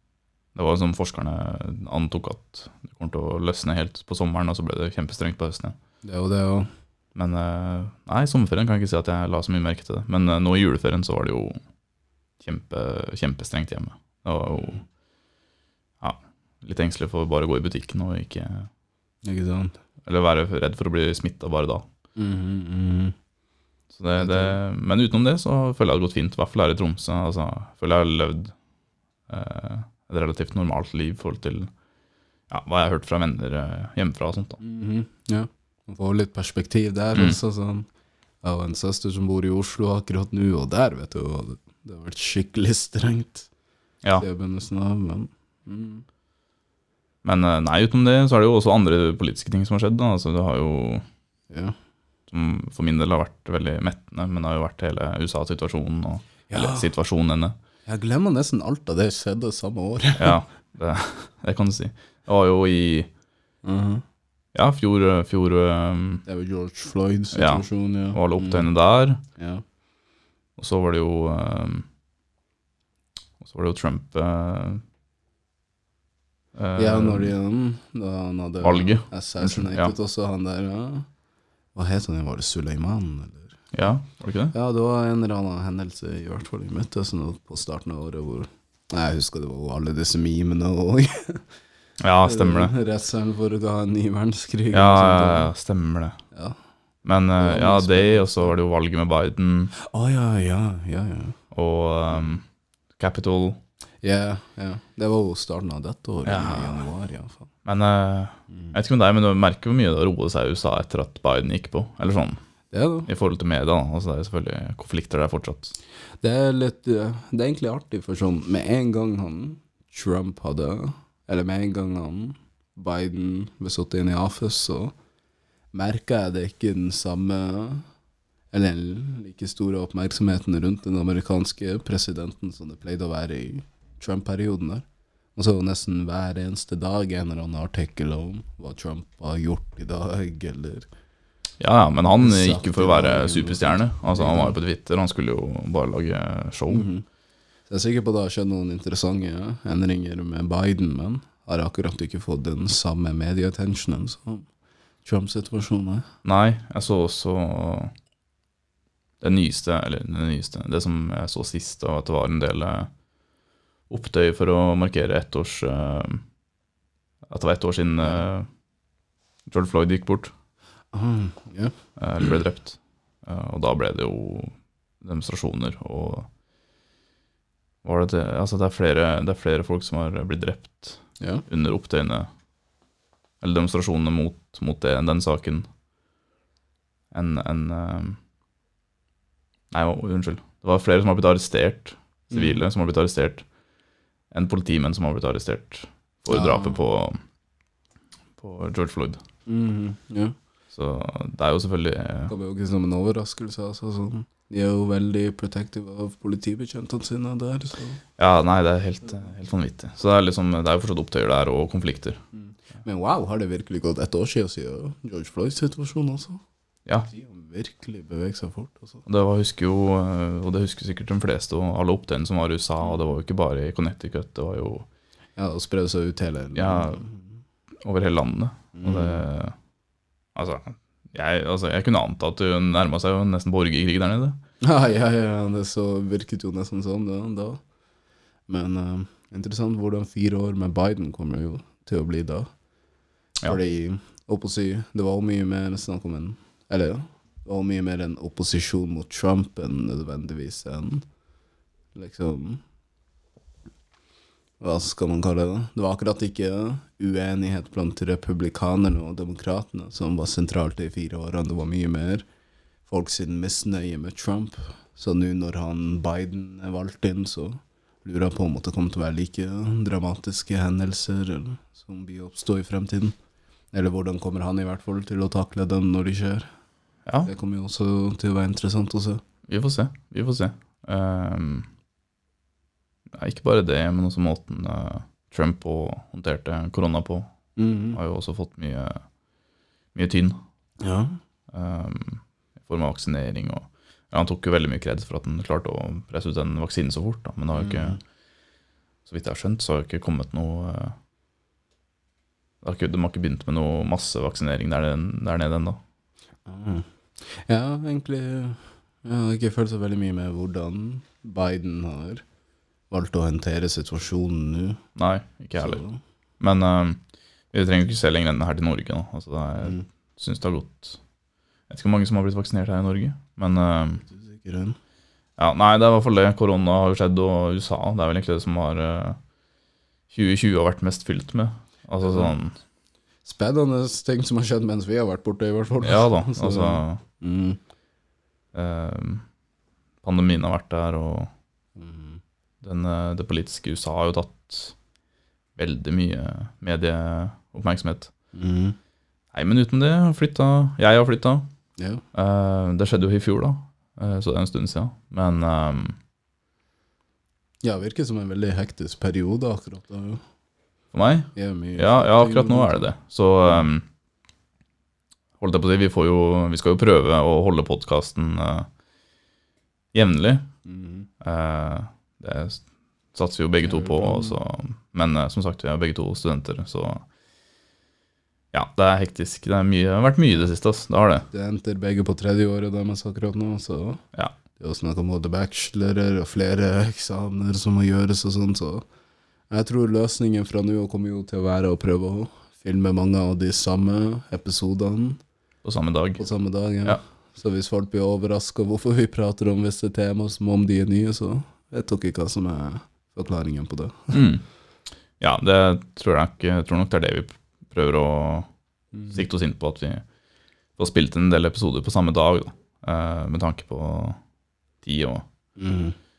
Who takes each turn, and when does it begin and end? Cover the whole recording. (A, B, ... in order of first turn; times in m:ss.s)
0:00.6-0:05.8 A
0:06.0-0:06.7 B
0:07.2-0:11.6 A
0:12.4-0:14.8 A
0:14.5-0:14.8 B
0:16.0-0:18.7 A
0:19.2-0:19.8 B
0:20.0-0:21.9 A
0:22.2-0:23.2 B
0:23.9-0:28.6 A
0:24.2-0:24.6 B
0:29.3-0:31.7 A
0:32.5-0:34.6 A
0:34.6-0:37.9 B
0:38.4-0:43.5 B
0:44.2-0:46.0 B
0:47.2-0:51.0 A
0:51.5-0:51.8 B
0:52.3-0:57.6 A
0:56.5-0:56.9 B
0:57.9-1:00.4 B
1:00.2-1:03.1 A
1:03.6-1:04.0 B
1:04.6-1:06.2 A
1:06.3-1:08.7 B
1:07.3-1:09.2 A
1:09.4-1:09.6 B
1:10.6-1:11.9 A
1:13.4-1:14.8 A
1:16.6-1:17.3 A
1:16.8-1:21.1 B
1:18.6-1:19.9 A
1:21.8-1:23.6 B
1:23.7-1:24.5 A
1:24.5-1:31.5 B
1:32.0-1:32.7 A
1:32.2-1:35.5 B
1:34.7-1:36.2 A
1:37.0-1:39.7 A
1:37.4-1:38.5 B
1:39.8-1:41.4 B
1:41.5-1:42.4 A
1:43.0-1:43.6 A
1:44.0-1:47.5 B
1:46.3-1:46.8 A
1:47.6-1:52.4 A
1:48.5-1:48.8 B
1:52.7-1:53.1 B
1:53.1-1:55.7 A
1:56.2-2:04.9 B
2:05.7-2:07.9 B
2:08.5-2:14.8 B
2:15.4-2:20.9 B
2:21.6-2:26.9 A
2:22.2-2:24.6 B
2:26.7-2:27.0 B
2:27.7-2:34.5 B
2:35.0-2:36.0 B
2:36.2-2:37.9 A
2:39.2-2:42.9 A
2:43.9-2:46.2 A
2:47.3-2:48.5 A
2:49.5-2:50.3 A
2:50.9-2:51.7 B
2:52.0-2:56.3 A
2:57.8-3:02.3 A
3:03.4-3:05.7 A
3:07.1-3:08.2 A
3:09.7-3:13.4 A
3:12.3-3:12.6 B
3:14.3-3:17.2 A
3:16.3-3:16.8 B
3:18.4-3:19.2 A
3:19.5-3:20.4 B
3:20.7-3:22.3 A
3:22.3-3:28.0 B
3:28.2-3:32.2 A
3:32.3-3:36.4 B
3:37.1-3:39.0 B
3:39.1-3:44.9 A
3:45.4-3:47.2 B
3:46.6-3:47.0 A
3:47.8-3:49.6 A
3:48.8-3:49.2 B
3:50.4-3:54.4 A
3:54.6-3:57.6 B
3:58.5-4:02.5 B
4:03.4-4:11.0 B
4:12.0-4:12.6 B
4:14.6-4:22.2 B
4:22.9-4:33.2 B
4:33.7-4:36.5 B
4:37.2-4:39.2 B
4:39.5-4:41.7 A
4:43.1-4:47.3 A
4:47.6-4:48.0 B
4:47.9-4:49.0 A
4:50.0-4:50.4 A
4:50.8-4:51.2 B
4:51.5-4:58.0 A
4:57.5-4:58.0 B
4:59.1-5:01.0 A
5:02.6-5:05.8 A
5:06.5-5:12.2 B
5:12.9-5:14.8 B
5:15.0-5:15.8 A
5:15.6-5:16.0 B
5:16.4-5:21.0 A
5:19.6-5:19.9 B
5:21.7-5:24.0 A
5:24.1-5:24.8 B
5:25.4-5:29.2 A
5:30.1-5:32.6 A
5:32.0-5:32.3 B
5:33.2-5:37.6 B
5:35.8-5:37.0 A
5:38.5-5:39.2 A
5:40.0-5:41.3 A
5:41.8-5:42.2 B
5:42.6-5:44.8 A
5:45.6-5:48.1 A
5:48.3-5:48.8 B
5:49.3-5:51.5 A
5:51.8-5:52.0 B
5:52.1-5:56.0 A
5:57.6-6:00.2 B
6:00.9-6:03.8 A
6:01.4-6:02.9 B
6:05.4-6:08.7 A
6:09.9-6:10.5 A
6:10.6-6:11.1 B
6:11.2-6:17.0 A
6:13.6-6:14.4 B
6:18.5-6:21.3 A
6:21.3-6:24.0 B
6:24.6-6:28.8 B
6:29.5-6:35.2 B
6:35.6-6:36.2 A
6:36.2-6:44.2 B
6:44.1-6:44.4 A
6:45.2-6:48.5 A
6:48.9-6:49.2 B
6:49.1-6:50.0 A
6:50.8-6:54.2 A
6:54.8-6:55.2 A
6:55.6-6:56.0 B